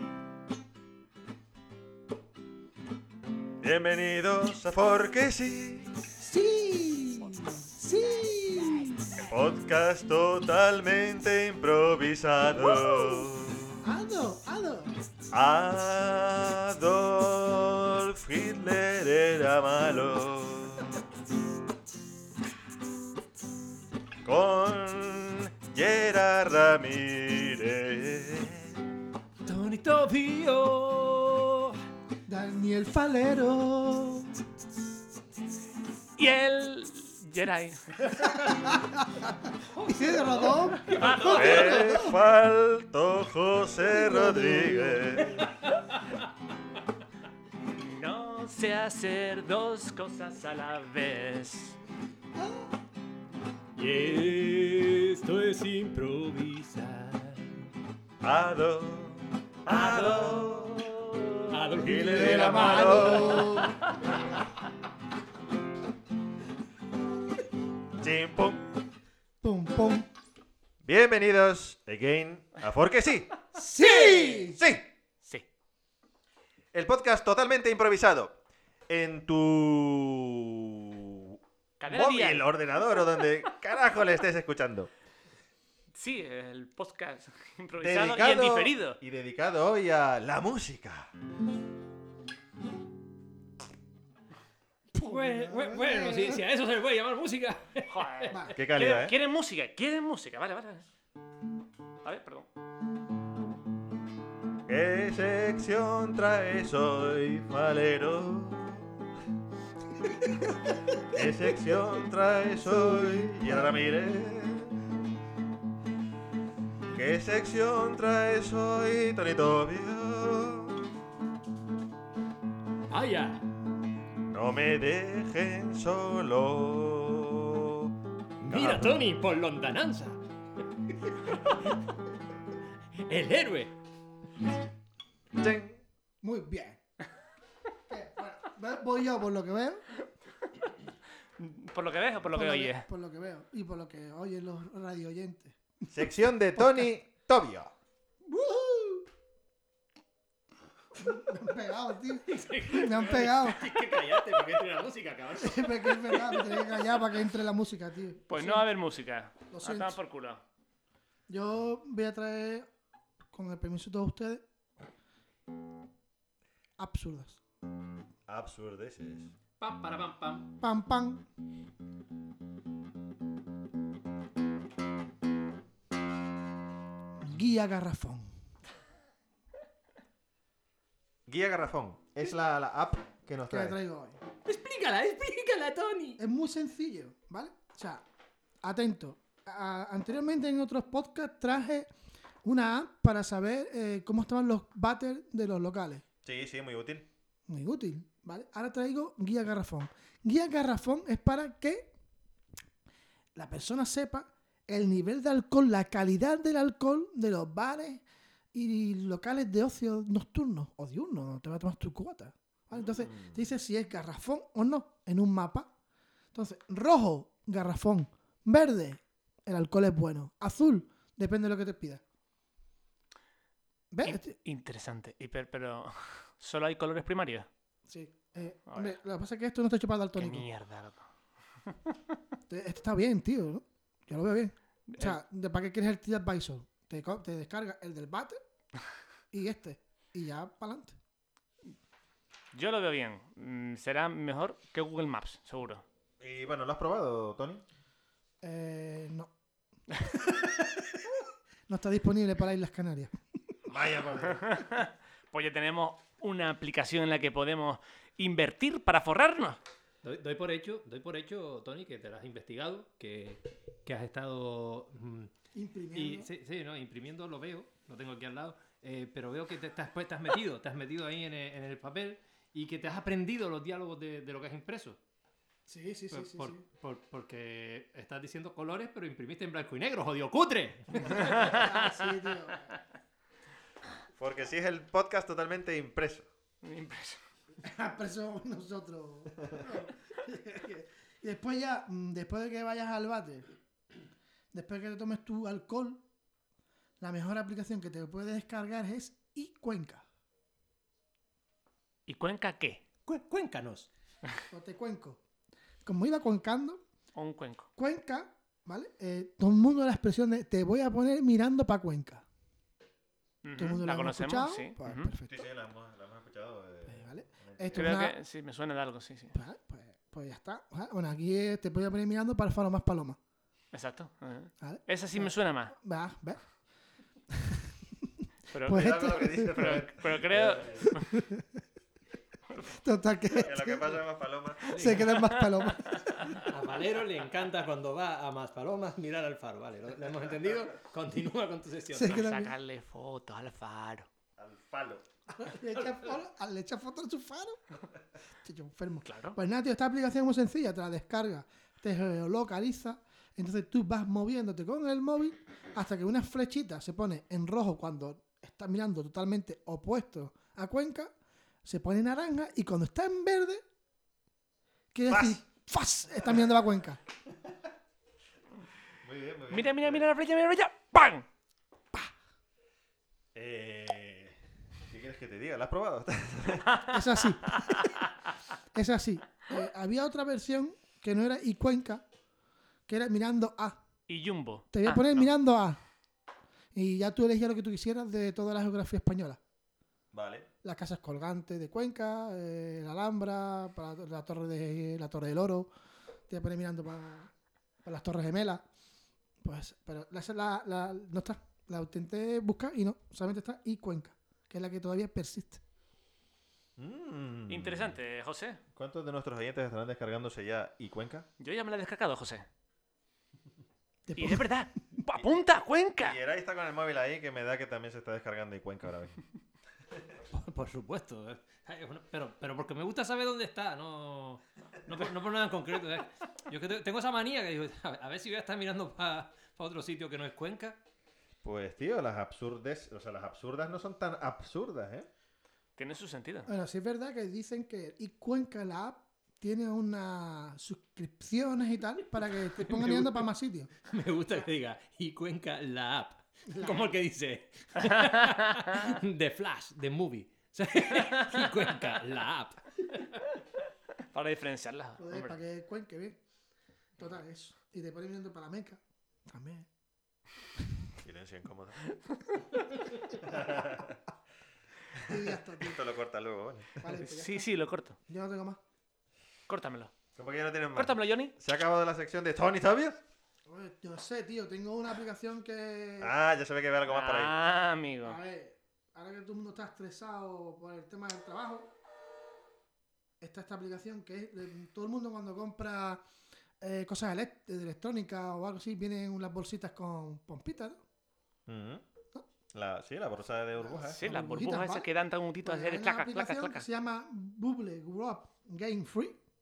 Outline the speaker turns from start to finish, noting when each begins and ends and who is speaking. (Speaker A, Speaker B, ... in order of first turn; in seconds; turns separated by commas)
Speaker A: 3.6-6.0, Speaker B: 6.2-9.2, Speaker A: 9.2-13.8, Speaker B: 12.6-13.3, Speaker B: 13.8-15.0, Speaker A: 15.3-21.0, Speaker A: 24.2-28.8, Speaker C: 29.4-31.8, Speaker B: 32.3-34.3, Speaker D: 36.2-38.0, Speaker B: 38.2-42.2, Speaker C: 39.7-41.5, Speaker D: 40.9-41.8, Speaker A: 41.3-45.5, Speaker B: 43.9-45.2, Speaker D: 47.8-51.8, Speaker B: 52.4-52.7, Speaker C: 53.8-57.7, Speaker A: 58.2-60.9, Speaker D: 59.7-60.5, Speaker C: 61.5-63.7, Speaker A: 61.8-63.6, Speaker B: 61.9-63.8, Speaker A: 68.0-68.6, Speaker B: 69.4-70.1, Speaker A: 70.8-73.3, Speaker B: 73.5-74.6, Speaker D: 74.0-74.4, Speaker A: 74.5-74.9, Speaker A: 76.7-84.9, Speaker D: 81.8-82.5, Speaker D: 86.0-89.0, Speaker A: 87.8-91.1, Speaker C: 94.9-98.4, Speaker B: 95.0-96.4, Speaker D: 97.9-100.8, Speaker A: 98.5-99.2, Speaker D: 102.0-102.5, Speaker A: 104.7-109.0, Speaker B: 110.7-110.9, Speaker A: 111.1-114.8, Speaker B: 113.2-113.5, Speaker A: 116.9-120.8, Speaker C: 122.9-123.5, Speaker A: 124.2-129.1, Speaker C: 128.4-130.2, Speaker C: 130.9-131.8, Speaker C: 133.0-133.7, Speaker A: 135.4-135.8, Speaker B: 136.2-136.8, Speaker B: 137.9-139.8, Speaker D: 141.4-142.9, Speaker B: 142.3-145.9, Speaker A: 145.9-147.7, Speaker B: 146.6-146.9, Speaker B: 148.2-149.1, Speaker B: 151.0-153.8, Speaker C: 152.3-156.9, Speaker B: 155.4-158.7, Speaker D: 158.3-160.4, Speaker B: 159.5-159.9, Speaker B: 161.3-162.7, Speaker B: 163.3-164.4, Speaker B: 166.8-167.4, Speaker A: 168.3-169.3, Speaker C: 169.6-170.5, Speaker B: 170.6-171.2, Speaker B: 177.2-178.3, Speaker A: 181.3-183.8, Speaker B: 183.5-184.2, Speaker C: 184.4-186.2, Speaker B: 186.2-188.0, Speaker B: 188.6-191.9, Speaker B: 192.4-196.0, Speaker A: 196.2-197.1, Speaker B: 197.5-201.9, Speaker B: 203.3-208.0, Speaker B: 208.5-215.7, Speaker A: 212.8-213.4, Speaker B: 216.3-222.0, Speaker B: 223.9-224.3, Speaker D: 224.0-227.5, Speaker B: 227.9-230.5, Speaker D: 228.7-228.9, Speaker D: 230.2-231.1, Speaker B: 232.5-238.4, Speaker D: 234.9-235.2, Speaker B: 239.3-241.0, Speaker D: 242.5-245.8, Speaker A: 246.2-247.6, Speaker B: 248.4-249.3, Speaker B: 251.7-253.2, Speaker A: 253.7-254.5, Speaker D: 254.3-259.6, Speaker C: 260.0-265.3, Speaker B: 265.5-266.3, Speaker C: 265.9-275.0, Speaker B: 275.7-276.6, Speaker C: 276.1-281.6, Speaker B: 281.0-282.7, Speaker D: 281.1-281.7, Speaker A: 284.2-286.3, Speaker D: 286.6-287.2, Speaker B: 287.6-293.5, Speaker B: 294.5-296.0, Speaker B: 297.0-300.0, Speaker D: 302.1-302.8, Speaker C: 303.1-303.9, Speaker B: 304.5-305.2, Speaker B: 305.9-306.8, Speaker D: 307.1-307.7, Speaker B: 307.8-312.2, Speaker D: 313.4-315.1, Speaker B: 313.6-315.4, Speaker A: 315.3-317.9, Speaker B: 316.9-318.2, Speaker D: 317.8-319.3, Speaker B: 319.3-323.2, Speaker D: 323.7-325.7, Speaker B: 324.6-326.4, Speaker D: 328.5-331.1, Speaker B: 328.6-329.6, Speaker A: 328.7-330.9, Speaker B: 330.8-331.4, Speaker B: 332.7-333.9, Speaker A: 333.4-334.6, Speaker B: 334.6-336.5, Speaker C: 334.7-335.1, Speaker D: 335.1-336.1, Speaker C: 336.4-342.2, Speaker B: 341.9-342.5, Speaker D: 342.1-344.1, Speaker A: 344.4-345.0, Speaker B: 345.3-347.8, Speaker B: 348.4-361.1, Speaker D: 349.1-349.4, Speaker B: 361.6-363.6, Speaker B: 364.9-367.0, Speaker A: 365.1-365.4, Speaker A: 369.0-370.1, Speaker D: 369.5-371.3, Speaker A: 373.4-374.4, Speaker A: 374.9-376.8, Speaker B: 376.9-377.9, Speaker B: 378.7-382.1, Speaker B: 382.9-383.8, Speaker D: 384.1-385.3, Speaker B: 384.7-385.8, Speaker B: 386.7-389.4, Speaker A: 390.1-390.5, Speaker B: 390.6-395.7, Speaker B: 396.3-397.3, Speaker B: 397.9-398.6, Speaker B: 399.4-405.6, Speaker A: 406.8-408.0, Speaker D: 407.5-408.6, Speaker A: 408.8-411.3, Speaker D: 411.4-412.4, Speaker B: 414.1-414.5, Speaker D: 414.2-416.2, Speaker A: 416.0-419.2, Speaker C: 420.3-430.8, Speaker A: 431.4-435.1, Speaker D: 435.8-436.5, Speaker B: 436.5-443.7, Speaker C: 442.5-443.3, Speaker C: 443.8-453.2, Speaker B: 446.5-446.9, Speaker D: 447.8-448.9, Speaker D: 451.2-451.6, Speaker D: 454.1-455.3, Speaker B: 455.0-456.2, Speaker B: 457.0-459.7, Speaker A: 461.0-461.8, Speaker D: 461.9-462.7, Speaker A: 463.2-464.0, Speaker A: 464.9-466.8, Speaker B: 465.1-465.8, Speaker B: 466.8-467.5, Speaker D: 466.9-468.0, Speaker B: 468.1-468.6, Speaker D: 469.5-469.9, Speaker A: 470.2-473.0, Speaker D: 470.8-471.3, Speaker B: 473.5-476.1, Speaker A: 476.0-477.3, Speaker D: 476.9-478.2, Speaker B: 478.0-481.7, Speaker B: 483.2-486.0, Speaker B: 486.6-490.8, Speaker A: 491.5-491.8, Speaker A: 492.5-494.1, Speaker D: 493.9-496.7, Speaker B: 493.9-494.9, Speaker B: 495.4-499.2